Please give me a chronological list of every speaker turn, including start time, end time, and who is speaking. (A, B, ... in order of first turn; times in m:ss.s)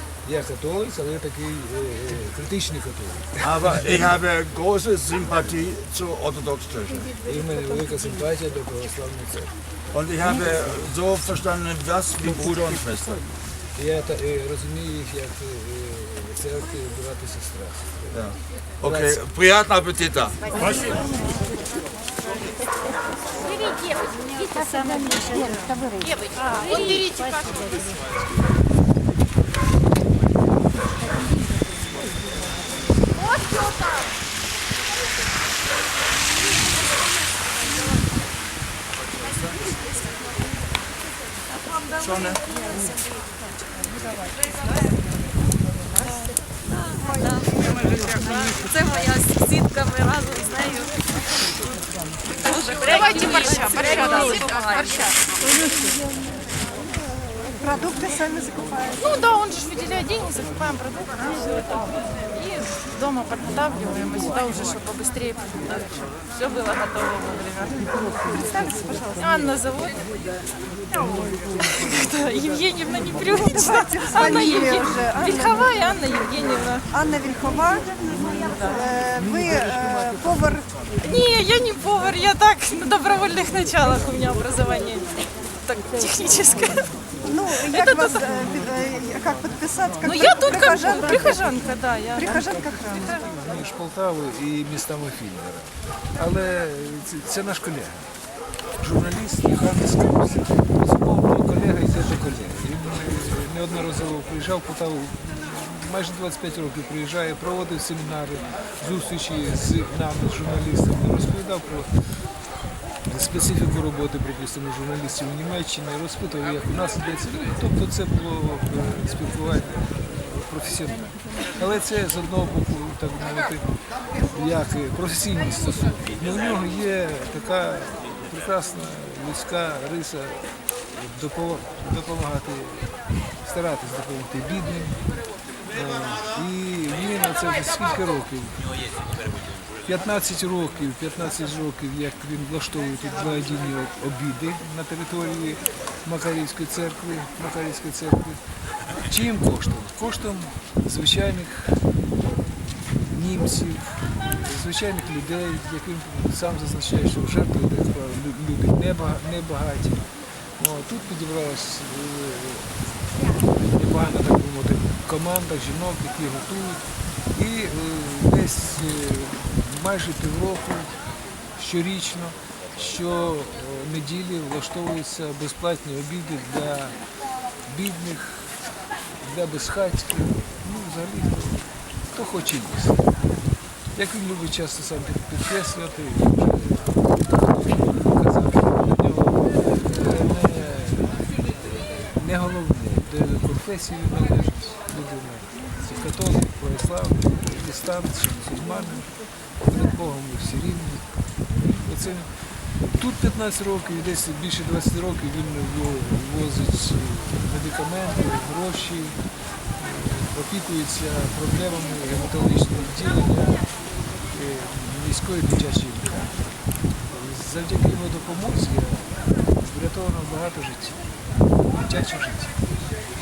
0:00.2-0:03.8 A
0:03.4-0:07.2 B
0:07.2-0:09.6 A
0:09.9-0:13.3 B
0:13.8-0:18.2 A
0:18.1-0:20.9 B
0:18.8-0:19.2 A
0:23.4-0:24.0 C
0:26.0-0:28.1 C
0:42.0-0:42.3 B
0:48.6-0:50.9 D
0:52.5-0:54.8 D
0:52.5-0:55.1 C
0:57.6-0:59.0 E
0:59.0-1:01.5 C
1:02.3-1:07.8 C
1:08.3-1:09.2 E
1:09.2-1:10.0 C
1:11.6-1:16.9 C
1:13.5-1:15.4 E
1:16.9-1:20.7 E
1:21.0-1:26.9 C
1:27.2-1:31.2 E
1:27.5-1:28.4 C
1:30.0-1:32.4 C
1:32.3-1:33.1 E
1:32.3-1:38.1 A
1:38.8-1:52.4 A
1:53.0-2:03.8 A
2:04.3-2:15.0 A
2:15.7-2:18.8 A
2:19.8-2:31.9 A
2:33.0-2:42.9 A
2:43.5-2:51.0 A
2:51.6-2:57.1 A
2:57.6-3:03.1 A
3:04.0-3:21.1 A
3:21.8-3:36.4 A
3:37.1-3:41.0 A
3:41.7-3:42.6 A